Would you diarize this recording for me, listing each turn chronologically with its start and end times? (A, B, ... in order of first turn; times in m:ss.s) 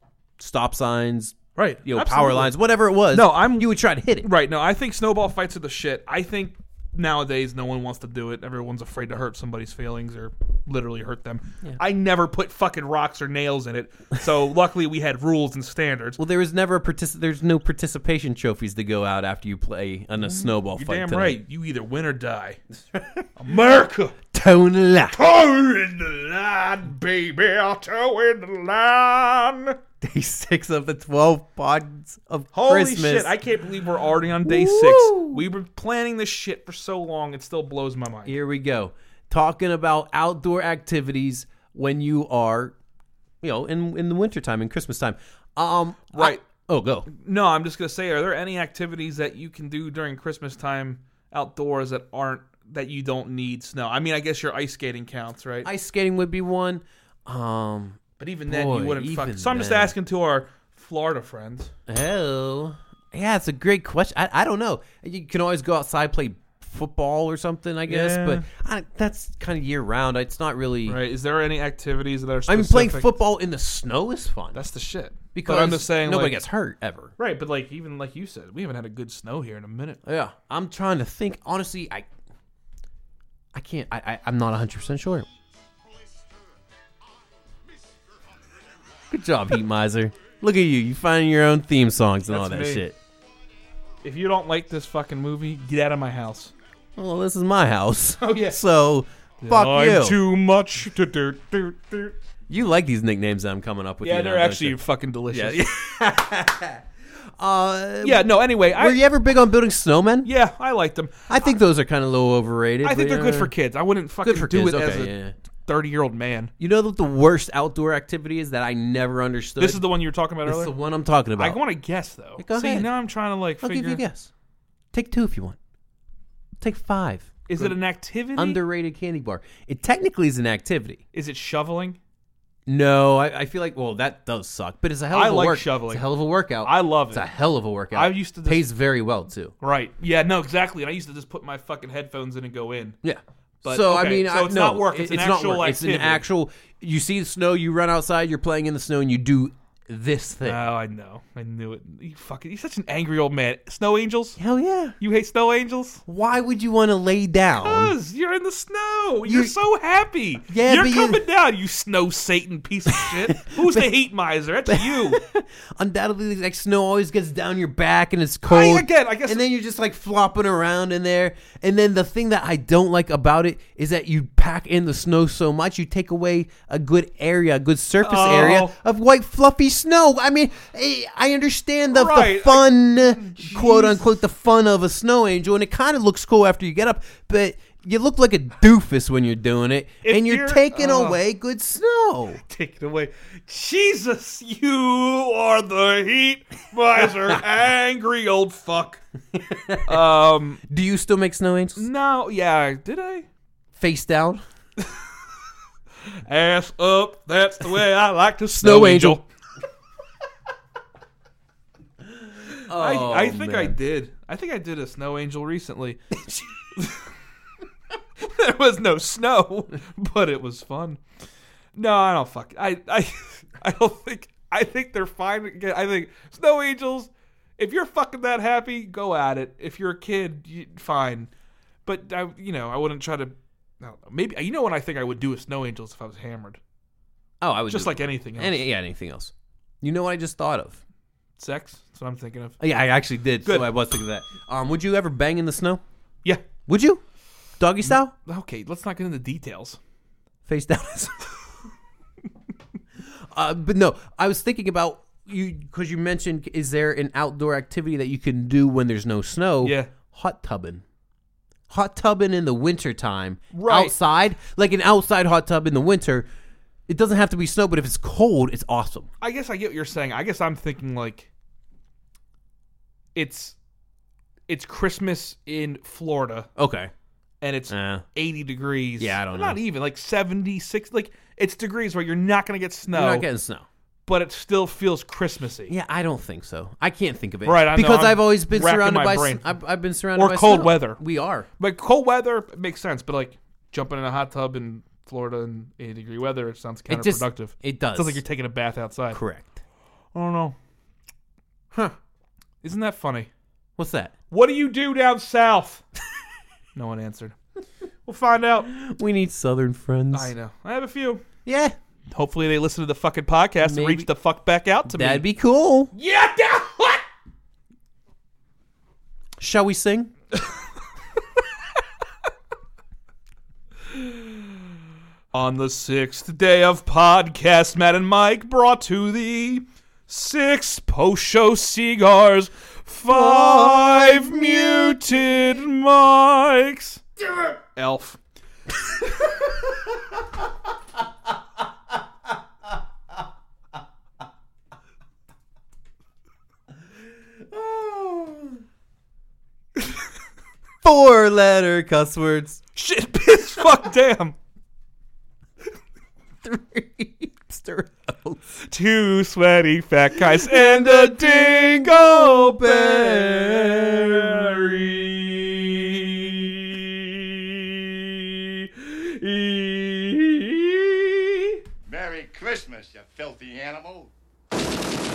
0:00.4-0:04.3 A
0:01.5-0:02.5 B
0:03.1-0:16.2 B
0:16.2-0:21.4 A
0:20.2-0:22.6 B
0:22.9-0:23.2 A
0:23.4-0:24.2 B
0:24.3-0:25.2 A
0:25.1-0:29.8 B
0:30.0-0:33.4 A
0:32.5-0:38.4 B
0:34.4-0:35.4 A
0:38.2-0:42.8 A
0:43.4-0:47.1 A
0:46.1-0:46.4 B
0:47.1-0:55.7 B
0:55.6-0:59.9 A
0:58.2-1:01.7 B
1:01.9-1:11.0 A
1:07.8-1:08.4 B
1:10.8-1:13.1 B
1:12.5-1:14.6 A
1:14.5-1:16.4 B
1:15.3-1:17.1 A
1:17.2-1:20.0 B
1:20.0-1:22.1 A
1:23.5-1:25.3 A
1:29.1-1:33.0 A
1:32.3-1:32.8 B
1:34.0-1:36.5 B
1:37.0-1:40.2 A
1:38.2-1:38.6 B
1:39.4-1:42.1 B
1:42.5-1:44.8 A
1:44.0-1:45.6 B
1:45.3-1:46.8 A
1:47.4-1:50.3 A
1:48.0-1:49.0 B
1:50.2-1:51.3 B
1:51.3-1:53.5 A
1:52.8-1:56.5 B
1:54.2-1:55.3 A
1:56.6-1:59.8 A
1:59.6-2:00.7 B
2:00.4-2:01.6 A
2:01.4-2:04.0 B
2:02.4-2:02.9 A
2:03.6-2:04.3 A
2:04.9-2:05.6 A
2:06.6-2:07.8 A
2:07.5-2:08.6 B
2:08.4-2:11.0 A
2:11.1-2:12.0 B
2:12.7-2:19.5 A
2:15.1-2:16.1 B
2:16.6-2:17.3 B
2:17.9-2:18.6 B
2:19.6-2:23.0 B
2:23.0-2:30.6 A
2:23.6-2:26.2 B
2:30.4-2:34.4 B
2:34.4-2:35.0 A
2:35.0-2:36.0 B
2:36.1-2:37.9 A
2:37.6-2:45.2 B
2:39.2-2:39.6 A
2:40.5-2:41.2 A
2:42.9-2:43.9 A
2:44.7-3:12.4 A
2:48.4-2:49.4 B
2:58.0-2:58.7 B
3:01.9-3:04.2 B
3:10.0-3:11.2 B
3:12.4-3:19.0 B
3:19.3-3:20.0 A
3:19.8-3:20.6 B
3:20.7-3:21.8 A
3:21.8-3:23.2 B
3:23.8-3:24.4 A
3:26.1-3:29.2 B
3:28.6-3:29.2 A
3:32.7-3:33.8 A
3:32.7-3:36.0 B
3:36.8-3:37.1 B
3:38.2-3:41.0 B
3:41.7-3:51.3 B
3:51.8-3:56.6 B
3:57.4-4:00.8 A
3:57.7-3:58.6 B
4:01.4-4:02.6 B
4:02.6-4:05.8 A
4:03.4-4:03.7 B
4:06.6-4:07.0 A
4:07.6-4:08.1 A
4:07.8-4:09.8 B
4:10.5-4:11.2 A
4:13.3-4:20.8 A
4:19.6-4:19.9 B
4:21.7-4:26.3 A
4:23.5-4:23.9 B
4:26.9-4:29.1 A
4:29.2-4:31.3 B
4:33.1-4:33.6 B
4:34.5-4:36.5 B
4:36.6-4:36.9 A
4:37.4-4:43.3 B
4:37.7-4:38.0 A
4:39.0-4:39.6 A
4:42.9-4:43.6 A
4:44.1-4:45.7 B
4:45.7-4:51.5 A
4:47.4-4:49.5 B
4:50.1-4:51.0 B
4:51.6-4:59.2 B
4:56.9-4:58.2 A
4:59.1-4:59.5 A
5:00.1-5:00.6 B
5:02.6-5:03.3 B
5:03.8-5:04.1 A
5:04.3-5:05.8 B
5:06.7-5:07.4 B
5:08.0-5:08.7 B
5:08.6-5:10.3 A
5:10.1-5:11.2 B
5:11.4-5:11.7 A
5:12.1-5:15.2 B
5:13.6-5:14.1 A
5:14.8-5:15.9 A
5:15.9-5:17.0 B
5:19.4-5:20.1 A
5:23.9-5:24.4 B
5:25.3-5:38.2 B
5:33.1-5:34.5 A
5:47.5-5:48.6 A
5:50.8-5:52.6 A
5:52.7-5:54.4 B
5:56.4-5:58.4 A
5:58.6-6:11.5 B
6:00.1-6:04.8 A
6:11.9-6:14.1 C